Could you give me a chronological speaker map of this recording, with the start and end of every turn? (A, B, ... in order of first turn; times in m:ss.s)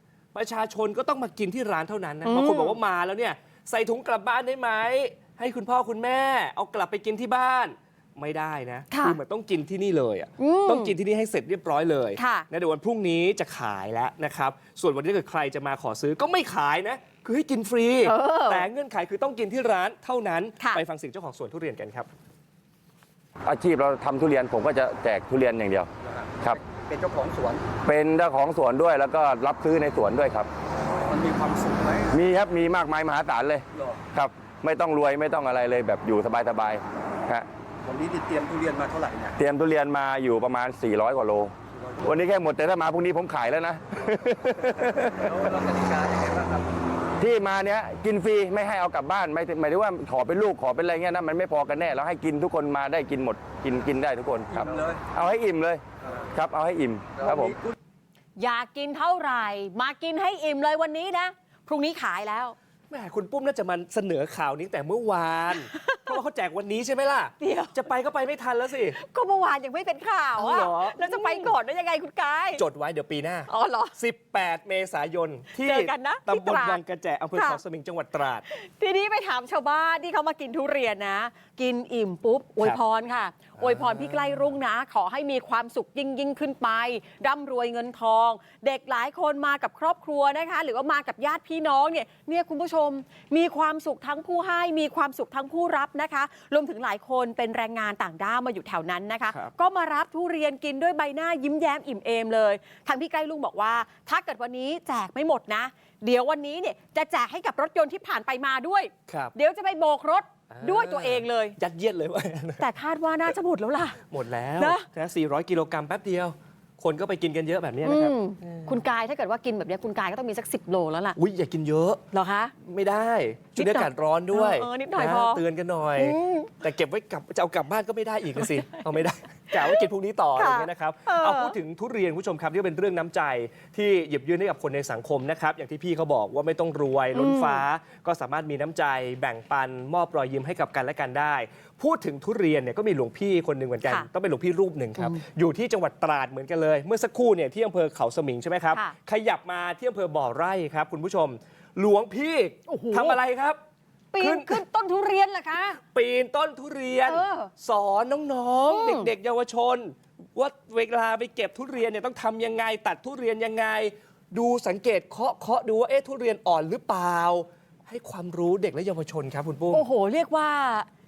0:00.3-0:22.1 A
0:02.2-0:02.8 B
0:08.9-0:09.2 B
0:10.4-0:10.9 B
0:12.2-0:12.5 B
0:18.0-0:18.6 B
0:23.4-0:26.6 C
0:26.1-0:27.7 D
0:27.8-0:30.5 C
0:31.0-0:32.1 D
0:32.1-0:37.5 C
0:37.8-0:39.4 D
0:39.3-0:45.4 C
0:45.3-0:46.7 D
0:47.2-0:57.6 C
0:54.6-0:55.0 D
0:57.2-0:57.5 D
0:58.4-1:02.6 B
1:02.9-1:09.0 A
1:05.5-1:06.2 B
1:07.4-1:07.8 B
1:08.9-1:12.6 B
1:10.4-1:11.5 A
1:12.6-1:18.4 A
1:13.5-1:13.9 B
1:15.6-1:16.8 B
1:17.3-1:17.6 B
1:18.5-1:51.6 B
1:23.6-1:24.5 A
1:49.1-1:49.3 A
1:50.5-1:52.6 A
1:52.6-1:54.0 B
1:54.1-1:58.7 A
1:54.6-1:54.8 B
1:57.8-2:01.2 B
2:01.2-2:02.0 A
2:02.1-2:02.5 B
2:02.6-2:33.6 A
2:03.6-2:05.4 B
2:06.0-2:06.5 B
2:09.5-2:09.8 B
2:10.4-2:11.6 B
2:17.1-2:17.6 B
2:32.7-2:33.2 B
2:34.1-2:35.8 B
2:34.2-2:34.6 A
2:35.9-2:49.8 A
2:37.0-2:37.5 B
2:38.7-2:39.1 B
2:49.7-2:50.9 B